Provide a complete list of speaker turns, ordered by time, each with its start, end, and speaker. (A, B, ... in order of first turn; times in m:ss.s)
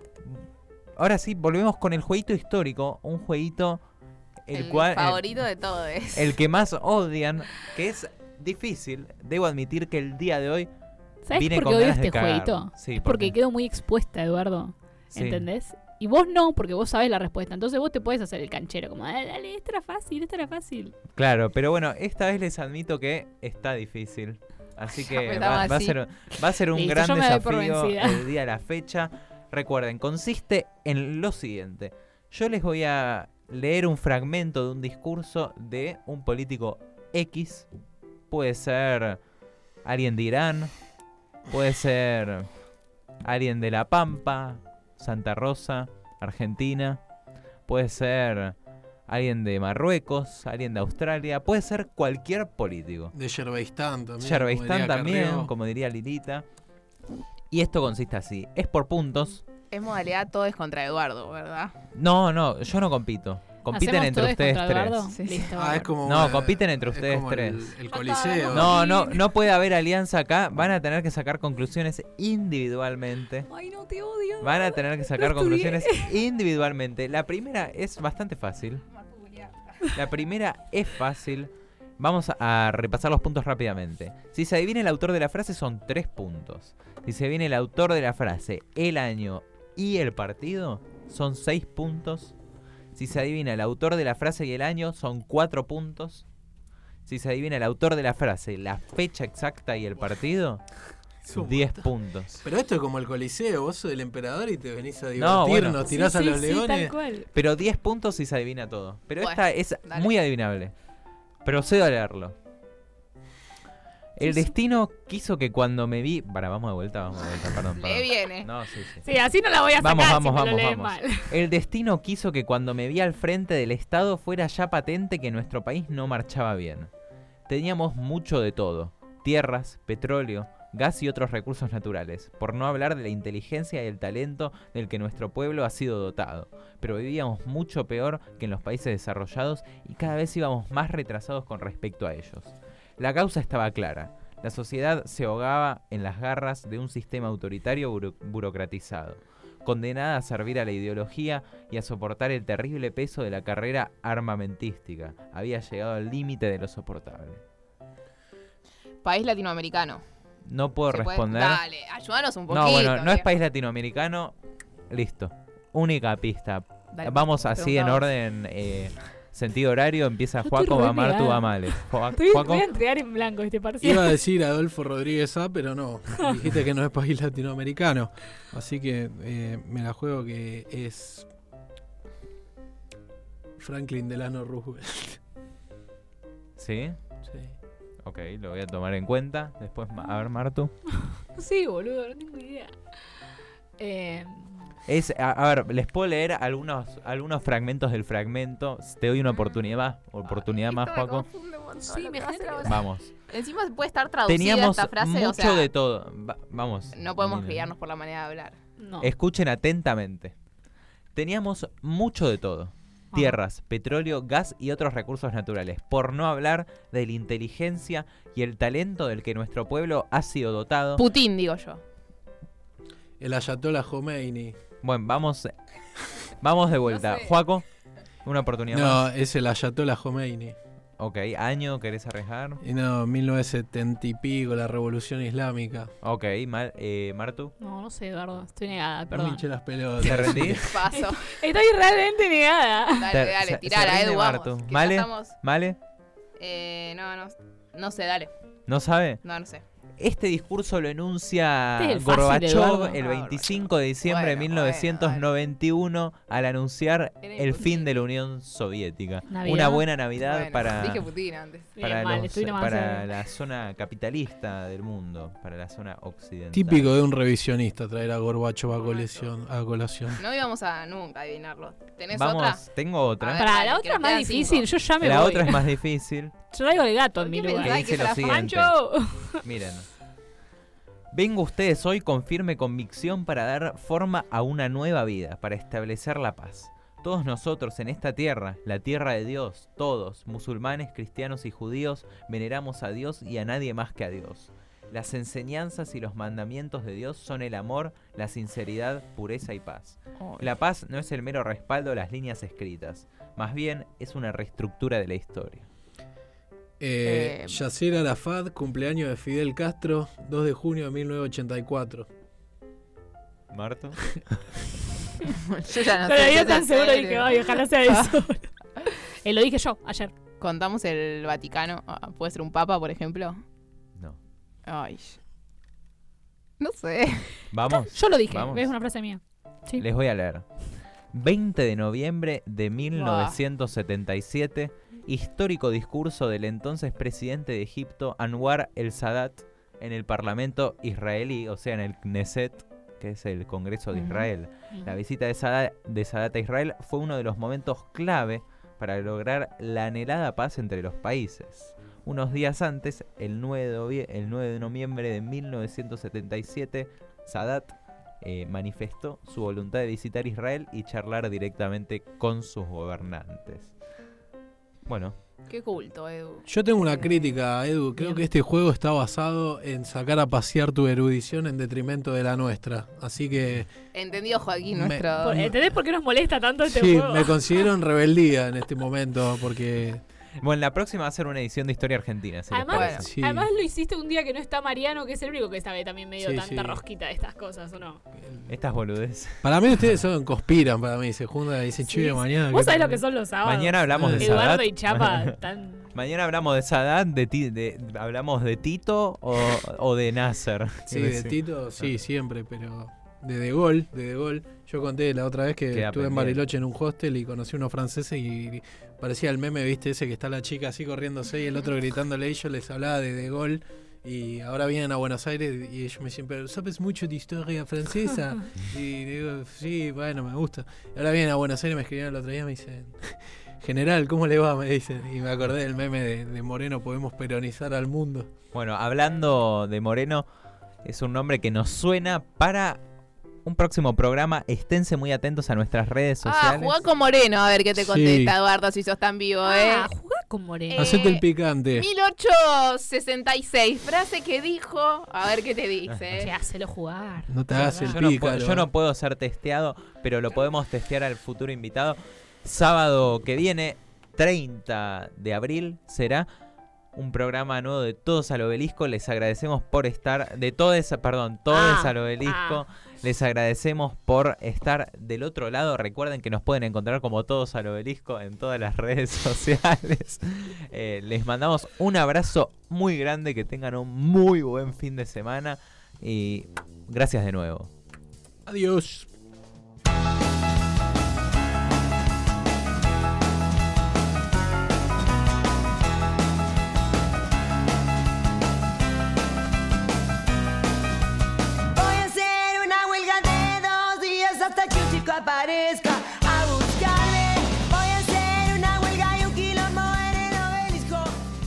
0:01.0-0:03.8 A
0:04.4-0:05.3 A
0:04.5-0:06.3 B
0:06.1-0:10.7 A
0:11.2-0:21.0 C
0:11.3-0:13.3 A
0:15.1-0:15.5 A
0:21.1-0:37.7 A
0:24.9-0:26.0 B
0:26.7-0:28.2 C
0:38.3-0:39.2 A
0:39.8-0:40.7 A
0:41.5-0:42.5 A
0:43.2-0:47.0 A
0:47.7-0:48.5 A
0:49.1-0:53.1 A
0:53.1-0:55.5 D
0:54.2-0:56.4 A
0:57.5-0:59.4 A
0:59.7-1:01.7 B
1:01.9-1:05.1 A
1:03.7-1:05.9 C
1:05.1-1:05.5 B
1:05.5-1:08.8 D
1:06.0-1:07.7 A
1:07.9-1:09.2 C
1:08.5-1:13.5 A
1:13.5-1:16.1 C
1:14.4-1:18.8 A
1:19.0-1:19.5 B
1:19.8-1:32.3 A
1:32.9-1:36.2 A
1:37.0-1:40.6 A
1:41.2-1:47.0 D
1:41.3-1:42.4 A
1:45.2-1:45.8 A
1:45.8-1:47.3 C
1:47.3-1:50.7 A
1:49.2-1:50.1 B
1:51.4-1:52.3 A
1:54.2-1:59.0 A
1:54.2-1:54.5 C
1:57.8-1:58.5 B
1:59.0-2:01.3 C
1:59.8-2:06.9 A
2:07.5-2:37.4 A
2:39.0-2:40.0 B
2:40.4-2:41.6 A
2:40.9-2:43.2 B
2:42.5-2:44.3 A
2:44.9-2:52.6 A
2:46.9-2:48.0 B
2:50.4-2:54.2 C
2:53.8-3:01.3 D
3:03.6-3:05.2 D
3:06.6-3:07.0 A
3:07.3-3:07.5 D
3:08.0-3:10.7 A
3:11.3-3:12.8 C
3:13.8-3:14.7 C
3:14.8-3:21.2 A
3:20.2-3:25.7 B
3:21.8-3:22.8 C
3:22.6-3:23.1 A
3:24.2-3:27.7 A
3:26.9-3:28.6 B
3:28.8-3:29.1 C
3:29.0-3:30.3 A
3:31.1-3:41.0 A
3:41.0-3:41.8 B
3:43.2-3:44.6 D
3:44.8-3:45.5 A
3:46.4-3:47.6 A
3:46.8-3:47.3 B
3:48.2-3:49.0 A
3:48.7-3:50.6 D
3:51.0-3:52.6 A
3:52.6-3:55.9 D
3:56.0-3:57.5 A
3:57.6-3:59.4 C
3:59.1-4:00.9 D
4:00.0-4:00.6 A
4:00.0-4:03.1 C
4:00.6-4:01.3 B
4:02.9-4:05.4 B
4:03.1-4:05.8 A
4:06.4-4:08.3 B
4:08.7-4:09.2 A
4:09.2-4:09.6 B
4:10.0-4:21.0 A
4:11.8-4:13.0 C
4:13.0-4:15.2 B
4:17.2-4:17.9 B
4:19.3-4:19.8 C
4:20.2-4:21.7 B
4:21.7-4:23.0 C
4:21.8-4:26.9 A
4:26.5-4:30.2 D
4:28.7-4:29.3 B
4:30.2-4:32.6 B
4:32.1-4:33.5 A
4:33.2-4:34.7 B
4:33.4-4:35.8 C
4:35.0-4:36.3 A
4:36.5-4:39.4 C
4:37.2-4:38.4 B
4:37.6-4:38.8 A
4:39.4-4:39.9 A
4:41.1-5:05.7 A
5:00.2-5:00.5 B
5:06.8-5:12.1 D
5:07.0-5:07.6 B
5:13.5-5:14.0 A
5:15.2-5:18.1 B
5:15.8-5:20.1 C
5:20.4-5:23.4 B
5:24.6-5:25.2 B
5:26.6-5:27.3 B
5:27.5-5:28.7 A
5:27.7-5:29.8 C
5:29.8-5:30.4 A
5:31.1-6:03.7 A
5:32.9-5:33.4 B
5:43.9-5:45.0 C
6:04.9-6:05.1 A
6:05.5-6:07.0 B
6:06.5-6:13.7 D
6:13.9-6:15.4 B
6:14.7-6:15.6 D
6:15.2-6:17.7 C
6:16.6-6:20.0 D
6:20.4-6:23.1 A
6:22.5-6:28.0 C
6:22.7-6:23.0 B
6:23.0-6:23.5 D
6:26.2-6:26.8 D
6:28.2-6:28.5 D
6:28.5-6:29.4 A
6:29.4-6:33.0 D
6:31.8-6:35.9 C
6:33.4-6:35.3 A
6:33.9-6:34.4 D
6:35.9-6:41.9 A
6:40.9-7:08.3 D
6:45.7-6:46.4 A
7:08.5-7:10.3 A
7:10.8-7:12.8 A
7:13.4-7:16.8 A
7:16.2-7:19.9 B
7:17.8-7:18.4 D
7:19.4-7:21.1 C
7:20.7-7:21.2 B
7:20.7-7:21.9 D
7:21.8-7:26.3 B
7:25.9-7:26.2 A
7:26.2-7:28.0 C
7:27.3-7:28.7 D
7:27.8-7:36.3 A
7:36.9-7:57.7 A
7:41.5-7:42.6 C
7:58.4-7:59.1 D
8:11.7-8:21.2 E